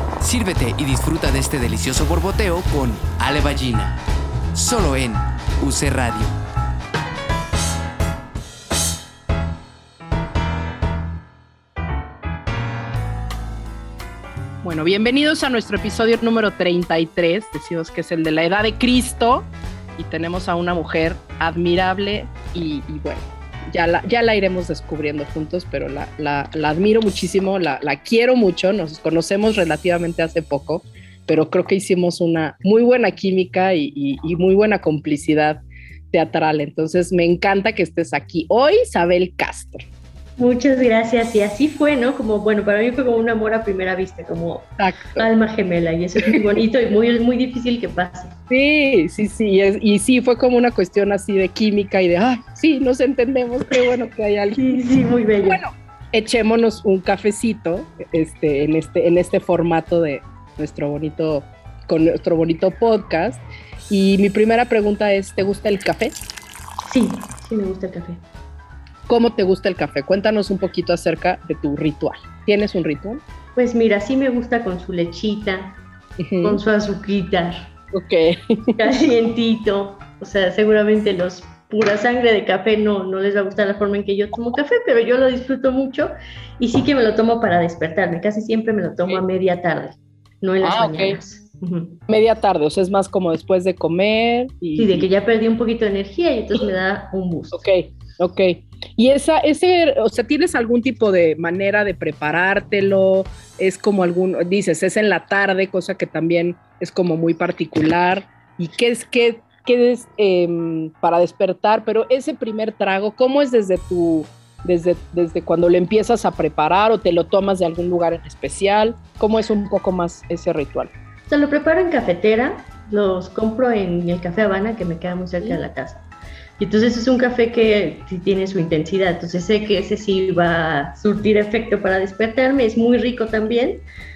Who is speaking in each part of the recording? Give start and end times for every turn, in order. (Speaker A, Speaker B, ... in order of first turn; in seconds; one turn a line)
Speaker A: 0.2-3.9
Speaker A: 4.5-6.3
Speaker B: 14.6-39.8
Speaker C: 40.4-48.4
Speaker B: 44.8-45.3
Speaker B: 48.5-54.7
Speaker C: 54.5-55.6
Speaker B: 55.4-66.3
Speaker C: 66.8-68.2
Speaker B: 69.1-73.2
Speaker C: 73.5-75.8
Speaker B: 76.2-76.6
Speaker C: 76.4-77.7
Speaker B: 77.9-78.8
Speaker C: 78.8-92.0
Speaker B: 90.6-91.2
Speaker B: 92.1-95.0
Speaker C: 94.8-97.6
Speaker B: 97.5-120.9
Speaker C: 121.3-126.0
Speaker C: 126.6-133.8